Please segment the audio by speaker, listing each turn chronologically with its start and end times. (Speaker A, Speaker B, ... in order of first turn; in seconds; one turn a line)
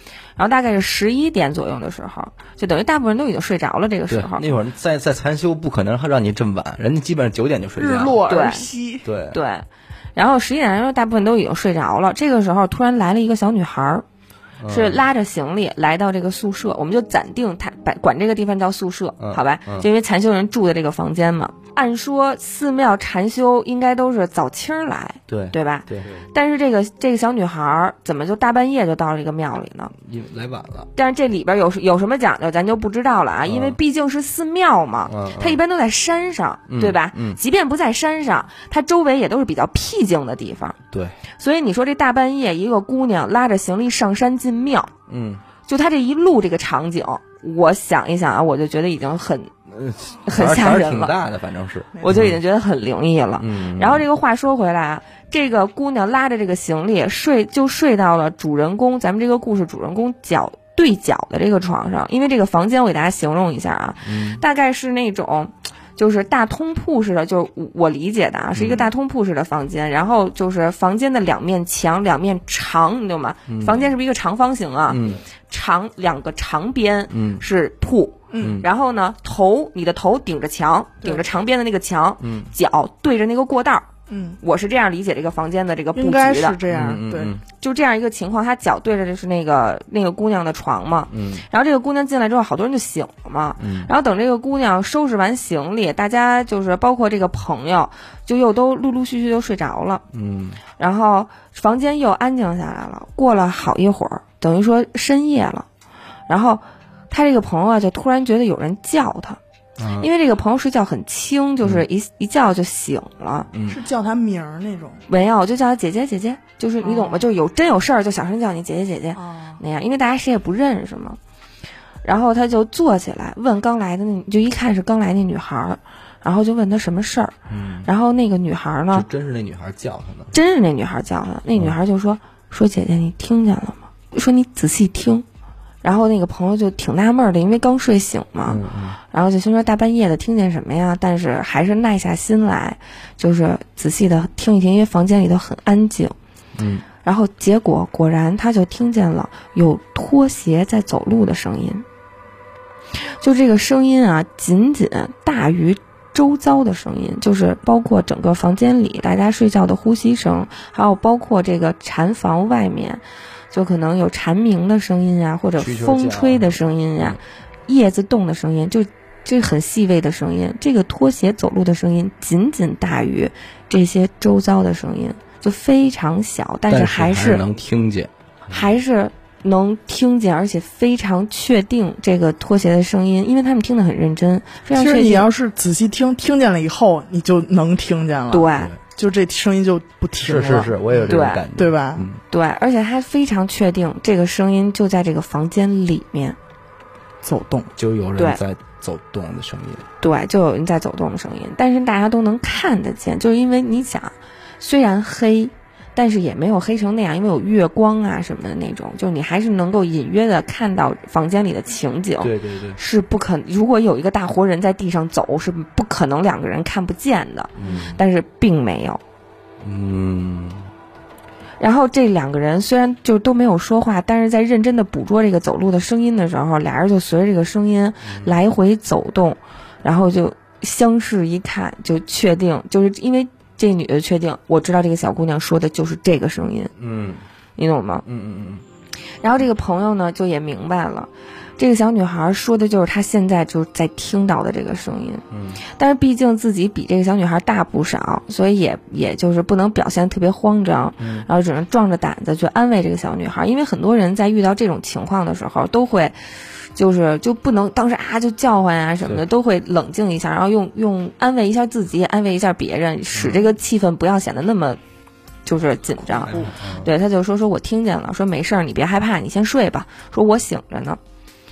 Speaker A: 0.4-4.5
Speaker B: 4.1-8.2
Speaker C: 7.8-9.1
Speaker A: 8.2-8.7
Speaker B: 9.0-9.4
Speaker A: 9.3-14.0
Speaker B: 14.6-15.0
Speaker A: 14.7-29.9
Speaker B: 19.2-19.9
Speaker B: 25.3-26.1
Speaker B: 30.0-30.9
Speaker A: 30.9-40.8
Speaker B: 33.4-33.8
Speaker B: 35.0-35.6
Speaker B: 36.7-37.4
Speaker B: 40.9-41.2
Speaker A: 41.4-44.9
Speaker B: 45.1-45.4
Speaker A: 45.6-49.5
Speaker B: 49.7-52.4
Speaker A: 50.2-51.2
Speaker A: 52.0-83.9
Speaker B: 53.4-54.0
Speaker B: 64.0-64.4
Speaker B: 68.5-68.9
Speaker B: 73.5-73.8
Speaker B: 74.9-75.2
Speaker B: 77.1-77.4
Speaker C: 78.3-78.6
Speaker B: 78.4-78.7
Speaker B: 82.2-82.5
Speaker C: 84.1-84.4
Speaker A: 84.4-86.6
Speaker C: 85.9-87.3
Speaker B: 86.7-87.4
Speaker A: 87.6-100.0
Speaker B: 91.1-91.5
Speaker B: 93.6-93.9
Speaker B: 100.1-100.6
Speaker A: 100.8-105.7
Speaker A: 106.3-109.4
Speaker B: 109.8-110.1
Speaker A: 110.0-113.5
Speaker B: 113.5-113.8
Speaker C: 113.7-115.0
Speaker A: 115.1-121.2
Speaker C: 116.8-117.3
Speaker C: 119.1-119.6
Speaker A: 122.0-127.3
Speaker B: 127.5-127.9
Speaker A: 127.8-129.1
Speaker B: 128.9-130.3
Speaker A: 130.3-135.2
Speaker A: 135.8-146.1
Speaker B: 138.4-139.0
Speaker B: 146.6-146.8
Speaker A: 147.0-151.8
Speaker A: 153.2-177.4
Speaker B: 165.6-167.2
Speaker B: 176.7-178.1
Speaker A: 178.5-185.3
Speaker C: 184.7-192.1
Speaker A: 188.3-188.7
Speaker B: 190.2-192.2
Speaker A: 191.1-191.4
Speaker A: 192.3-196.4
Speaker C: 197.2-197.7
Speaker B: 197.8-199.8
Speaker A: 200.0-219.0
Speaker B: 212.2-212.8
Speaker B: 217.6-218.0
Speaker B: 219.6-220.7
Speaker A: 221.6-236.7
Speaker B: 228.0-228.3
Speaker B: 236.8-237.2
Speaker A: 237.6-238.0
Speaker B: 238.1-238.6
Speaker A: 239.2-264.8
Speaker B: 245.3-245.6
Speaker B: 251.0-251.3
Speaker A: 265.4-271.0
Speaker C: 266.2-266.5
Speaker B: 266.3-266.9